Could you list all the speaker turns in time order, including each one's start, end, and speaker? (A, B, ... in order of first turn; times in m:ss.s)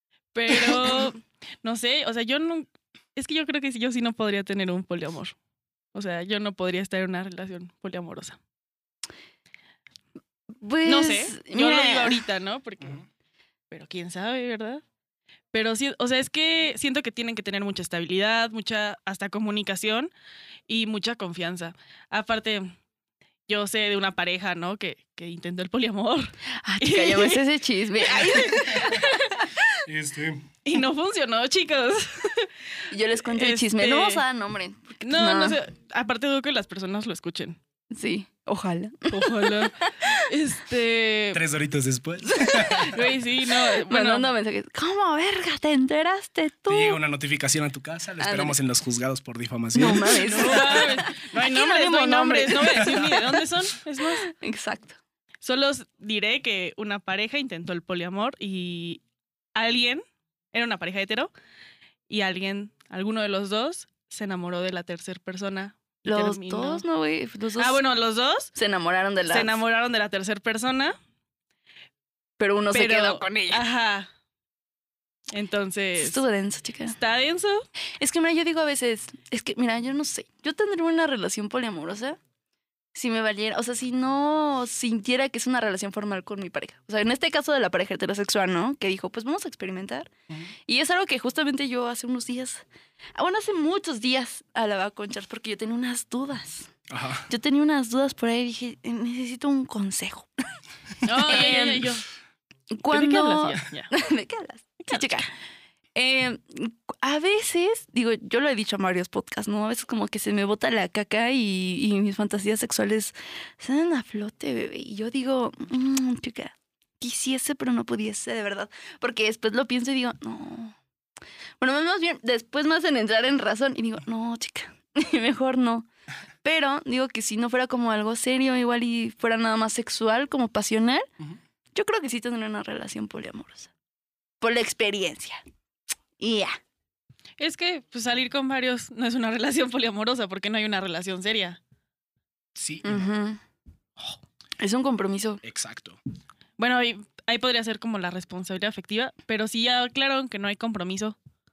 0:00.3-0:05.3 A
0:00.7-0:01.0 B
0:05.9-0:08.4 A
0:10.6-0:12.2 C
0:10.8-0:13.0 A
0:13.7-0:14.8 A
0:15.5-0:20.1 A
0:20.7-0:22.7 A
0:23.5-0:27.4 A
0:26.6-0:29.6 C
0:28.0-0:29.1 A
0:28.4-0:29.0 B
0:29.8-0:30.5 B
0:30.6-0:34.2 A
0:32.9-0:35.6 C
0:35.0-0:37.6 A
0:37.9-0:40.3 C
0:39.1-0:41.4 A
0:41.3-0:43.1 B
0:42.4-0:42.9 C
0:42.8-0:44.3 A
0:43.8-0:47.0 C
0:46.7-0:50.9 B
0:48.2-0:48.6 C
0:49.7-0:53.2 C
0:50.1-0:54.2 A
0:52.9-0:53.2 B
0:54.2-0:55.0 C
0:55.4-0:59.0 A
0:59.6-1:01.3 A
1:02.1-1:06.8 A
1:06.0-1:07.8 C
1:07.6-1:08.5 A
1:08.5-1:09.6 C
1:09.3-1:10.9 A
1:12.4-1:13.6 C
1:12.7-1:14.1 A
1:15.3-1:16.2 A
1:16.0-1:16.9 C
1:16.8-1:17.6 A
1:18.0-1:22.2 C
1:22.9-1:30.1 C
1:30.6-1:32.6 C
1:33.2-1:36.7 C
1:36.9-1:37.3 B
1:37.3-1:40.3 C
1:41.0-1:42.0 A
1:41.1-1:41.9 C
1:42.7-1:45.3 C
1:42.9-1:43.9 A
1:44.9-1:45.2 A
1:45.9-2:00.8 C
2:01.6-2:05.9 C
2:06.4-2:11.0 C
2:11.7-2:13.7 C
2:14.4-2:15.4 C
2:16.2-2:16.6 C
2:17.4-2:21.6 A
2:22.5-2:23.1 B
2:22.8-2:23.4 C
2:24.6-2:25.4 C
2:25.4-2:26.0 B
2:26.6-2:31.2 A